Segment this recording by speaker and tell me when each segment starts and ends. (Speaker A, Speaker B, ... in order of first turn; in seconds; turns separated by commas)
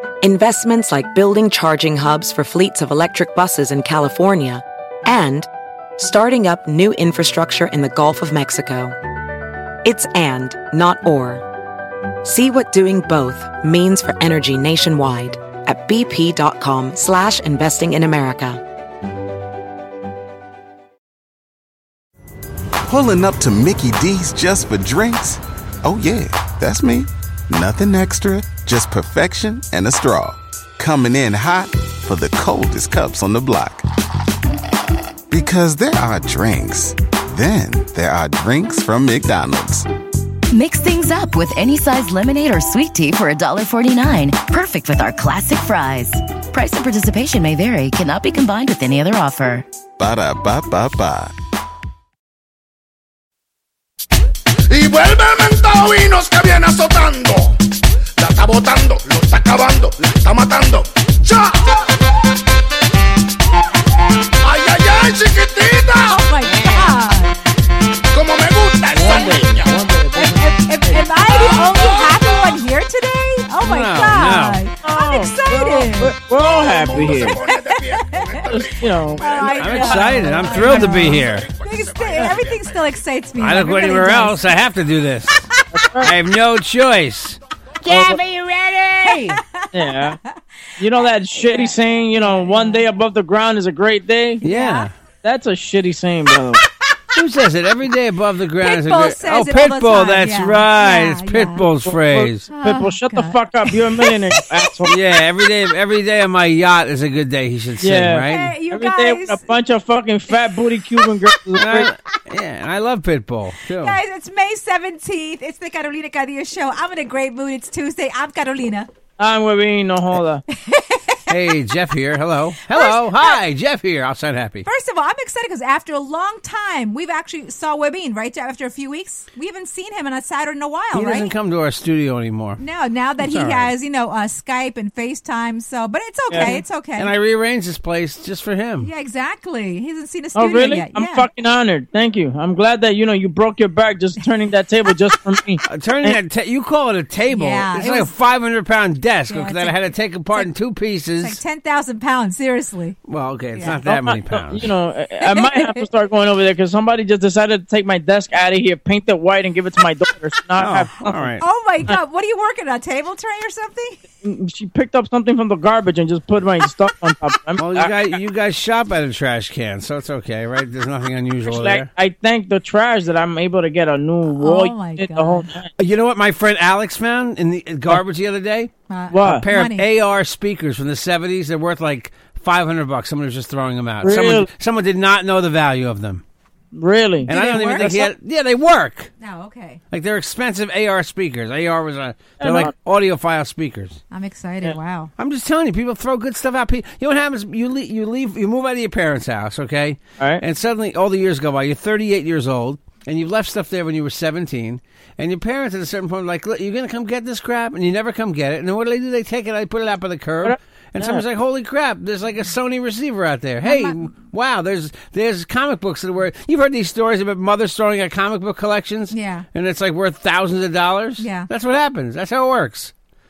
Speaker A: 0.2-9.0, Speaker A: 9.8-11.4, Speaker A: 12.2-18.6, Speaker B: 22.9-33.9, Speaker B: 35.3-39.9, Speaker C: 40.5-49.6, Speaker B: 50.0-51.3, Speaker D: 54.7-57.6, Speaker D: 58.2-62.1, Speaker D: 64.4-66.9, Speaker E: 66.1-67.3, Speaker D: 68.1-69.9, Speaker F: 68.9-71.0, Speaker E: 70.2-76.2, Speaker D: 71.2-72.5, Speaker G: 73.6-74.6, Speaker F: 74.8-77.4, Speaker D: 76.3-83.0, Speaker E: 76.8-78.6, Speaker F: 78.5-79.2, Speaker E: 79.2-84.5, Speaker G: 79.6-81.5, Speaker F: 79.8-81.0, Speaker G: 83.4-85.4, Speaker E: 85.5-85.8, Speaker F: 85.7-86.1, Speaker G: 86.0-87.4, Speaker F: 87.9-88.2, Speaker G: 87.9-89.4, Speaker E: 89.0-92.8, Speaker F: 89.7-90.2, Speaker F: 90.8-94.4, Speaker G: 94.4-94.9, Speaker E: 94.4-94.9, Speaker F: 95.2-96.6, Speaker G: 97.1-102.5, Speaker E: 98.6-101.7, Speaker F: 101.9-104.9, Speaker E: 102.5-104.9, Speaker G: 104.8-108.5, Speaker F: 107.8-111.9, Speaker E: 108.2-109.6, Speaker E: 110.3-111.1, Speaker G: 111.6-114.0, Speaker E: 113.8-118.9, Speaker F: 119.2-120.4, Speaker E: 120.5-121.3, Speaker G: 121.3-124.7, Speaker E: 122.7-123.4, Speaker E: 124.6-131.3, Speaker G: 130.9-132.6, Speaker E: 132.6-137.1, Speaker G: 133.2-133.7, Speaker F: 136.3-136.6, Speaker G: 137.0-138.9, Speaker E: 138.8-141.3, Speaker F: 140.3-146.2, Speaker G: 145.7-151.4, Speaker E: 147.3-148.1, Speaker E: 149.3-149.8, Speaker E: 151.2-153.0, Speaker G: 153.1-154.7, Speaker E: 153.6-153.8, Speaker F: 153.9-161.3, Speaker E: 155.2-155.8, Speaker G: 160.6-161.4, Speaker E: 161.4-164.0, Speaker F: 164.2-167.9, Speaker G: 167.6-171.9, Speaker F: 171.4-175.7, Speaker E: 174.3-175.5, Speaker G: 175.8-178.7, Speaker E: 178.9-179.9, Speaker F: 179.1-179.4, Speaker G: 179.2-186.2, Speaker F: 184.0-184.5, Speaker F: 186.7-188.1, Speaker E: 187.3-187.9, Speaker G: 187.3-189.1, Speaker E: 189.2-189.8, Speaker G: 189.9-194.0, Speaker F: 192.4-192.7, Speaker E: 194.1-195.1, Speaker G: 195.2-222.9, Speaker F: 210.4-211.2, Speaker E: 213.6-214.1, Speaker E: 219.1-219.5, Speaker E: 221.2-221.5